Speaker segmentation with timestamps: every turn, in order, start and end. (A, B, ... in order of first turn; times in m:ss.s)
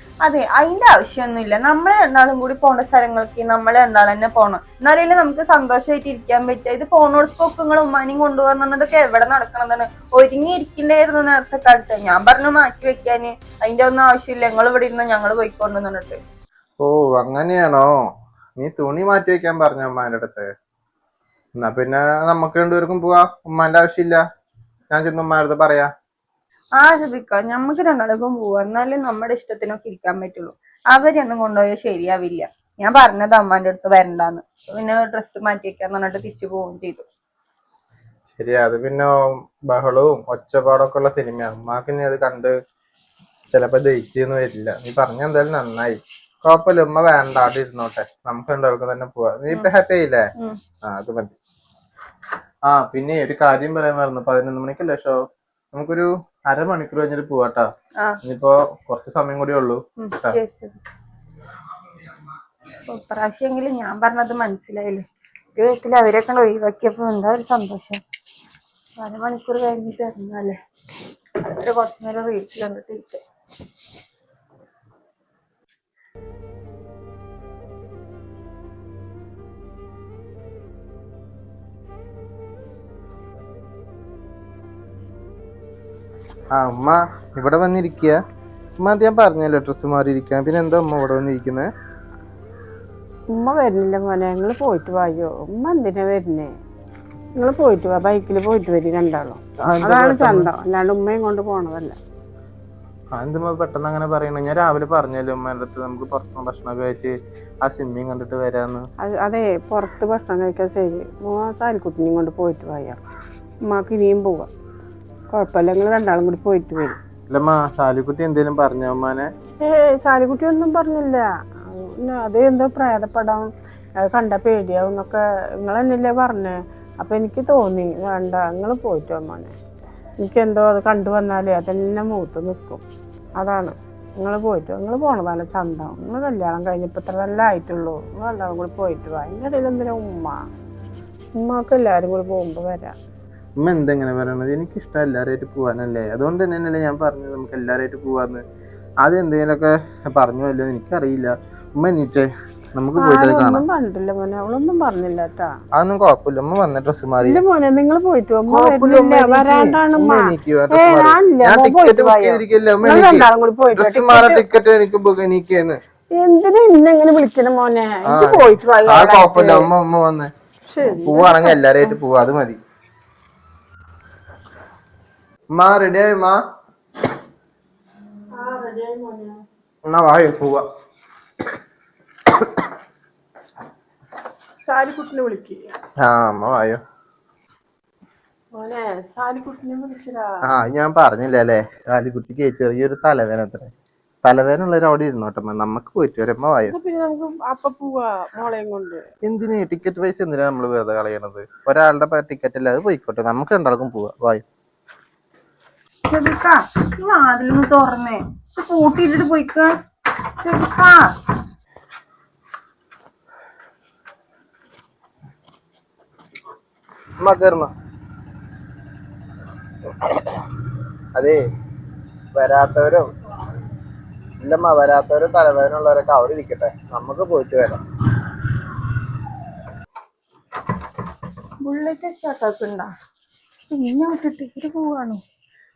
0:00.2-0:16.2 A
0:16.8-0:17.9 B
0:18.6-0:20.5 B
0:21.6-0:24.2 B
0:24.9-0:25.9 B
0:26.8-0:37.1 A
0:38.3-0:39.1 B
0:39.7-0:42.5 B
0:43.5-0:50.3 B
0:50.8-0:51.4 B
0:52.7-0:55.2 B
0:55.7-0:57.7 B
0:58.2-1:00.4 B
1:00.0-1:00.8 A
1:02.9-1:08.0 A
1:09.0-1:10.6 A
1:11.4-1:13.2 A
1:26.5-1:28.2 B
1:28.8-1:31.7 B
1:33.3-1:36.5 C
1:37.4-1:42.0 C
1:39.7-1:40.5 B
1:43.1-1:48.9 B
1:49.0-1:53.0 C
1:53.6-1:54.5 C
1:55.3-1:57.0 C
1:57.3-1:59.3 B
1:59.6-2:03.5 C
2:04.0-2:09.5 C
2:10.2-2:12.8 C
2:13.4-2:20.4 C
2:21.4-2:23.0 C
2:23.6-2:28.4 B
2:29.0-2:33.6 B
2:32.9-2:35.5 C
2:35.8-2:37.4 B
2:37.2-2:44.4 C
2:38.5-2:45.8 B
2:46.1-2:49.7 C
2:48.1-2:50.3 B
2:50.7-2:51.6 C
2:51.0-2:52.6 B
2:55.6-2:56.4 B
2:58.4-2:59.4 C
2:59.9-3:00.6 B
3:04.6-3:05.8 C
3:06.0-3:06.8 B
3:08.6-3:10.3 C
3:10.5-3:13.7 B
3:14.2-3:16.8 B
3:16.7-3:19.0 C
3:19.3-3:24.4 B
3:26.1-3:29.7 A
3:30.4-3:31.1 A
3:37.2-3:37.7 B
3:42.4-3:43.0 B
3:44.4-3:47.8 B
3:51.6-3:52.9 A
3:53.7-3:55.2 A